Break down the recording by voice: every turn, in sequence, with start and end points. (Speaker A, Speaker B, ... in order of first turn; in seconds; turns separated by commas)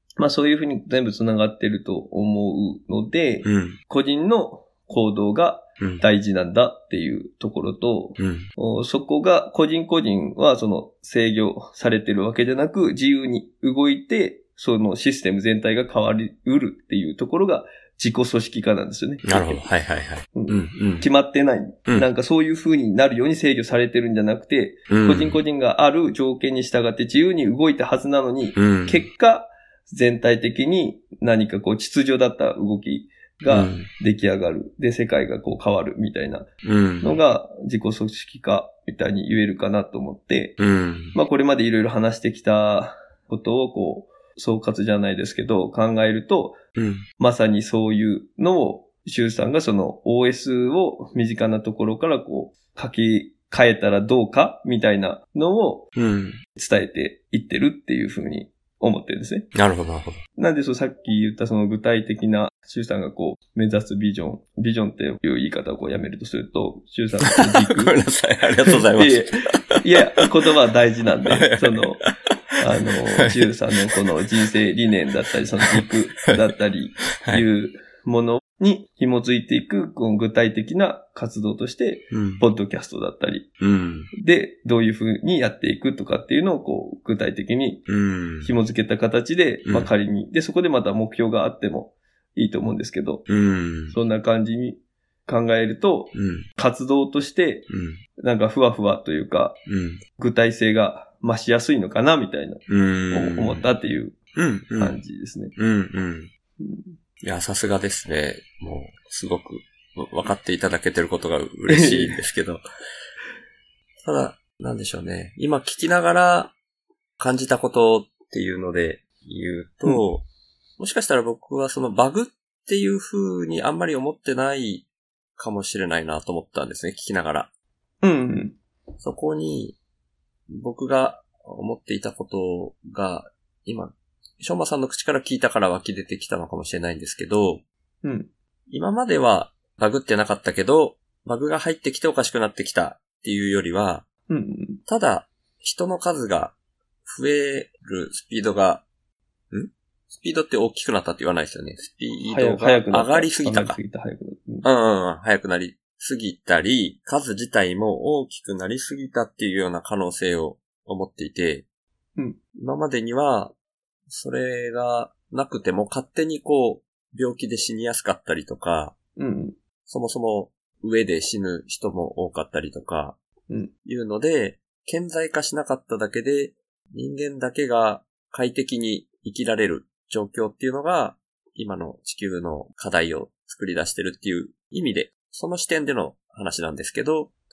Speaker A: 0.2-19.6, Speaker B: 3.4-3.8, Speaker B: 8.2-8.5, Speaker B: 19.2-21.1, Speaker A: 20.3-36.5, Speaker B: 24.9-25.4, Speaker B: 28.6-29.1, Speaker B: 33.5-33.9, Speaker B: 36.6-37.2, Speaker A: 37.0-40.6, Speaker B: 40.6-41.2, Speaker A: 41.1-46.6, Speaker B: 46.8-47.0, Speaker A: 47.2-55.9, Speaker B: 56.0-56.4, Speaker A: 56.5-59.5, Speaker B: 59.5-60.2, Speaker A: 60.4-68.0, Speaker B: 67.3-69.8, Speaker A: 68.7-72.0, Speaker B: 71.3-71.9, Speaker A: 72.6-83.5, Speaker B: 73.2-73.5, Speaker B: 77.2-77.5, Speaker B: 82.1-82.4, Speaker B: 83.6-84.1, Speaker A: 84.1-87.9, Speaker B: 87.9-88.5, Speaker A: 88.4-93.2, Speaker B: 89.7-89.9, Speaker B: 93.3-94.0, Speaker A: 93.9-97.7, Speaker B: 96.1-96.5, Speaker B: 97.7-98.0, Speaker A: 98.2-99.6, Speaker B: 99.7-100.0, Speaker A: 100.2-104.2, Speaker B: 102.7-103.7, Speaker B: 104.3-105.0, Speaker A: 104.8-105.5, Speaker B: 105.6-106.3, Speaker A: 106.6-106.9, Speaker B: 107.2-112.6, Speaker A: 111.7-112.2, Speaker B: 114.0-116.5, Speaker B: 117.2-120.3, Speaker B: 120.8-127.5, Speaker A: 128.0-128.6, Speaker B: 129.0-129.8, Speaker B: 130.5-137.6, Speaker A: 138.0-138.3, Speaker B: 138.7-144.1, Speaker A: 144.3-144.8, Speaker B: 144.9-148.8, Speaker B: 149.5-153.8, Speaker A: 152.2-154.7, Speaker B: 154.6-161.7, Speaker B: 162.6-163.5, Speaker B: 164.1-168.9, Speaker A: 169.2-169.6, Speaker B: 169.9-173.2, Speaker B: 173.8-187.3